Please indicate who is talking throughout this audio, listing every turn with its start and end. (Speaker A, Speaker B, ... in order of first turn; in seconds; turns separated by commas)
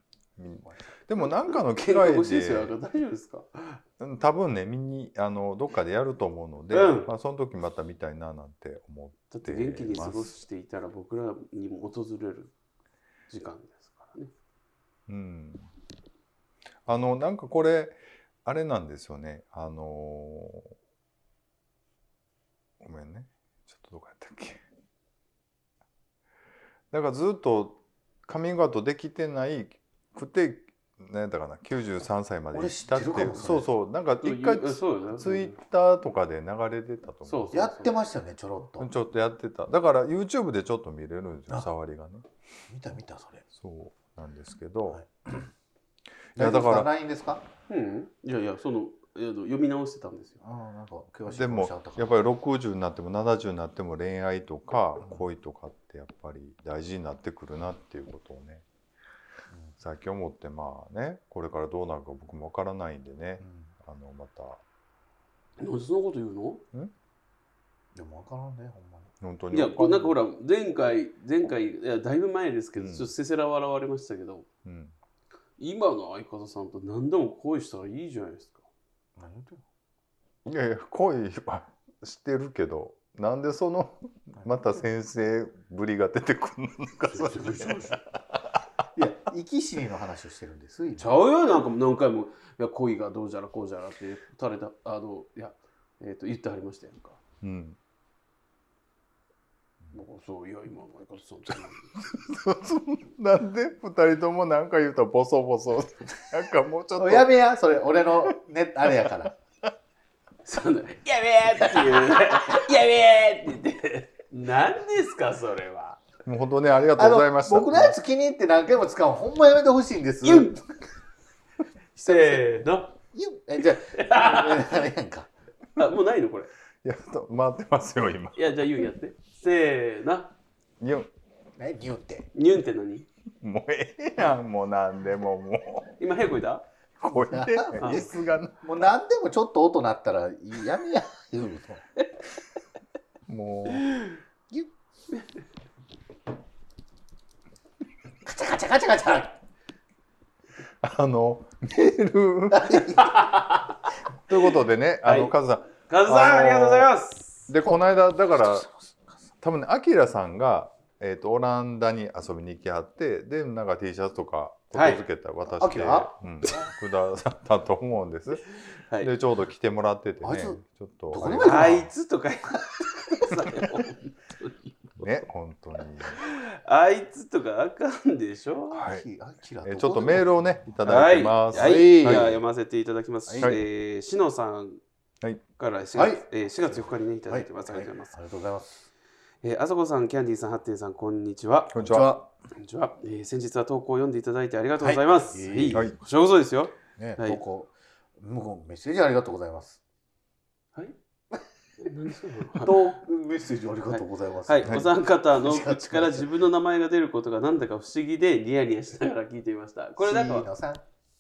Speaker A: 0.4-2.7, Speaker B: 1.2-3.8, Speaker A: 4.0-10.4, Speaker B: 6.7-7.1, Speaker B: 9.3-12.5, Speaker B: 13.3-14.3, Speaker A: 15.1-15.7, Speaker A: 16.9-20.7, Speaker A: 22.8-24.6, Speaker A: 26.9-37.5, Speaker C: 32.5-33.7, Speaker B: 34.2-35.6, Speaker B: 37.3-38.0, Speaker C: 37.5-38.9, Speaker A: 38.8-42.2, Speaker C: 42.7-43.4, Speaker A: 43.5-45.0, Speaker A: 46.3-46.9, Speaker C: 46.4-47.4, Speaker B: 47.7-50.4, Speaker C: 50.4-52.1, Speaker A: 51.3-58.6, Speaker A: 59.8-64.6, Speaker C: 63.4-63.7, Speaker B: 65.6-66.6, Speaker C: 68.0-69.1, Speaker A: 69.2-70.2, Speaker B: 69.5-74.5, Speaker A: 72.8-73.1, Speaker A: 74.7-74.9, Speaker B: 75.6-78.7, Speaker C: 79.2-79.6, Speaker A: 80.5-88.4, Speaker B: 87.1-88.0, Speaker C: 89.0-91.1, Speaker B: 91.0-97.2, Speaker A: 97.4-97.8, Speaker B: 99.9-101.9, Speaker A: 102.1-107.3, Speaker C: 107.0-109.3, Speaker B: 110.5-116.0, Speaker A: 116.2-118.0, Speaker C: 117.0-120.6, Speaker B: 120.2-120.6, Speaker C: 122.0-122.5, Speaker B: 122.0-123.0, Speaker C: 123.1-125.3, Speaker B: 123.9-124.7, Speaker B: 125.8-126.5, Speaker A: 126.8-128.5, Speaker B: 128.4-130.3, Speaker A: 130.8-131.1, Speaker C: 131.6-132.3, Speaker B: 132.3-133.1, Speaker A: 133.4-136.0, Speaker B: 136.0-136.7, Speaker A: 137.0-138.6, Speaker C: 137.1-138.1, Speaker B: 137.8-138.1, Speaker C: 138.6-141.8, Speaker A: 143.3-143.9, Speaker B: 143.8-144.2, Speaker C: 148.2-149.4, Speaker A: 150.8-153.1, Speaker C: 152.5-153.3, Speaker B: 153.0-153.6, Speaker A: 154.3-156.9, Speaker B: 155.0-155.3, Speaker B: 155.9-157.5, Speaker A: 157.5-158.7, Speaker C: 158.4-159.1, Speaker A: 159.4-171.8, Speaker B: 164.7-165.0, Speaker C: 165.5-166.1, Speaker C: 170.2-171.9, Speaker B: 171.4-174.7, Speaker A: 175.0-176.2, Speaker B: 176.2-178.8, Speaker A: 178.8-179.1, Speaker C: 178.8-180.7, Speaker A: 179.6-182.4, Speaker B: 180.8-184.8, Speaker C: 181.5-182.4, Speaker C: 183.3-183.6, Speaker B: 185.6-188.2, Speaker C: 185.9-188.9, Speaker B: 189.4-192.0, Speaker A: 191.7-192.2, Speaker C: 191.8-192.2, Speaker B: 192.6-197.4, Speaker C: 194.8-195.9, Speaker C: 197.0-199.8, Speaker B: 201.8-202.9, Speaker C: 202.6-206.3, Speaker B: 203.9-210.5, Speaker C: 210.0-210.8